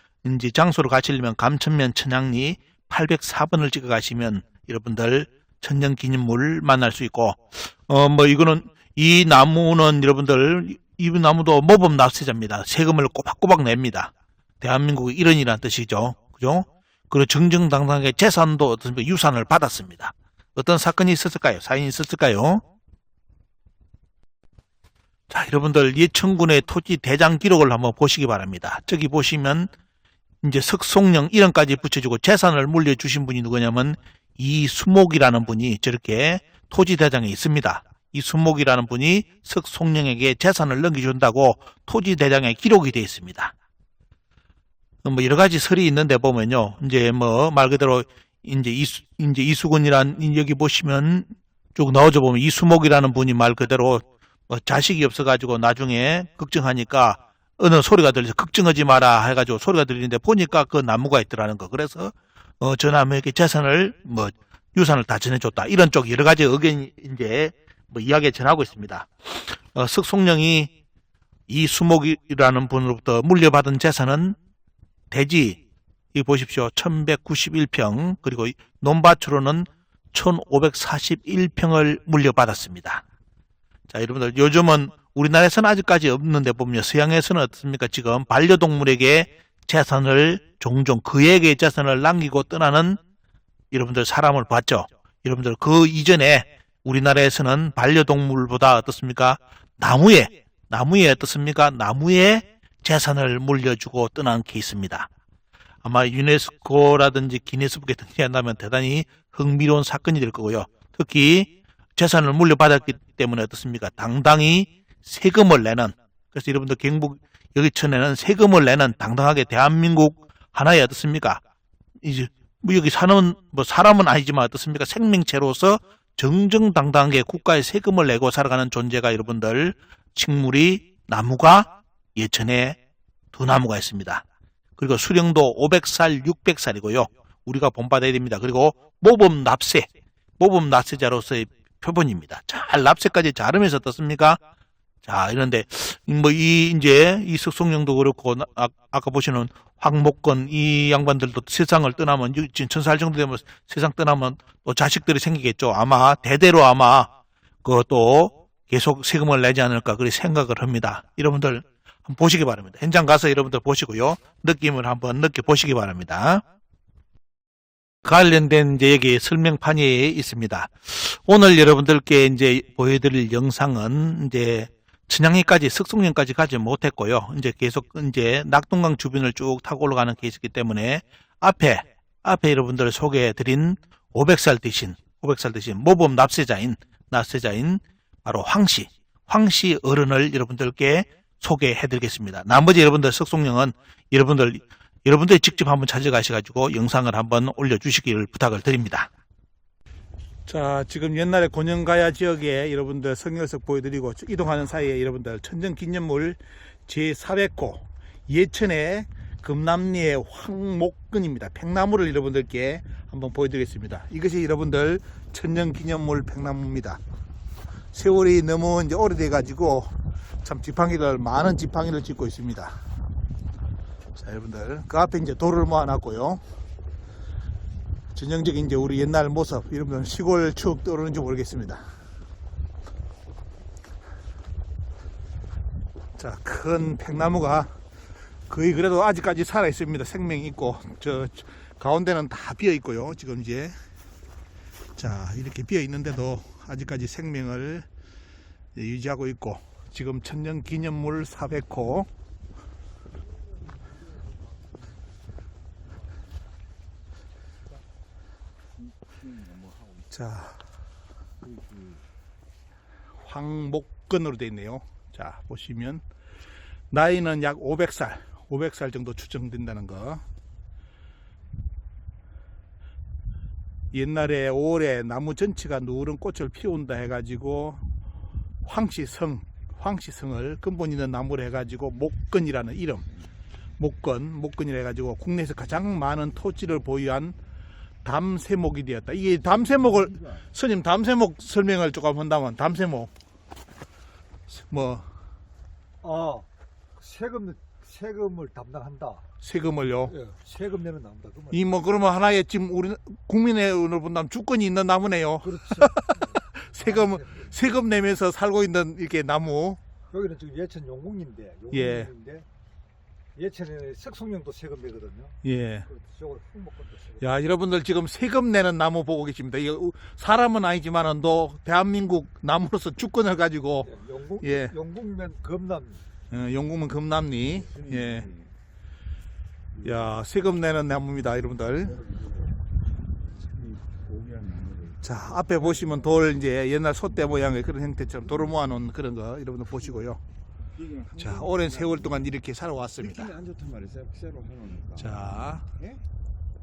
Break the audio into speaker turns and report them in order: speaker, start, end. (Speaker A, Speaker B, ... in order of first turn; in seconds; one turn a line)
Speaker A: 0.2-22.6
Speaker A: 25.3-29.7
Speaker A: 30.4-43.5
Speaker A: 45.0-70.7
Speaker A: 71.5-74.4
Speaker A: 75.1-75.6
Speaker A: 76.1-83.0
Speaker A: 83.9-93.0
Speaker A: 93.7-105.1
Speaker A: 105.8-121.4
Speaker A: 122.0-132.8
Speaker A: 133.3-134.2
Speaker A: 134.8-144.4
Speaker A: 145.0-157.1
Speaker A: 157.6-166.4
Speaker A: 168.0-199.1
Speaker A: 200.4-217.0
Speaker A: 217.9-222.8
Speaker A: 224.1-226.4
Speaker A: 228.1-231.8
Speaker A: 236.2-237.7
Speaker A: 238.5-243.8
Speaker A: 244.9-247.9
Speaker A: 248.7-252.1
Speaker B: 259.0-259.9
Speaker A: 260.1-260.6
Speaker B: 261.4-262.0
Speaker A: 263.2-266.0
Speaker A: 266.9-270.2
Speaker A: 273.9-277.8
Speaker A: 278.6-283.1
Speaker A: 283.8-287.4
Speaker A: 288.0-293.1
Speaker A: 294.5-295.1
Speaker C: 296.0-299.2
Speaker A: 299.4-300.2
Speaker C: 300.1-301.7
Speaker A: 301.5-309.8
Speaker C: 305.4-307.5
Speaker C: 310.1-312.4
Speaker A: 311.7-312.1
Speaker C: 313.4-315.4
Speaker A: 315.4-315.9
Speaker C: 315.9-317.2
Speaker A: 317.2-324.7
Speaker C: 323.8-326.0
Speaker A: 326.3-328.3
Speaker B: 327.7-328.4
Speaker A: 329.8-332.0
Speaker B: 332.0-332.3
Speaker B: 333.5-335.0
Speaker A: 335.0-340.2
Speaker B: 340.7-342.0
Speaker A: 341.2-343.3
Speaker B: 343.0-345.1
Speaker A: 344.9-345.6
Speaker B: 345.7-346.0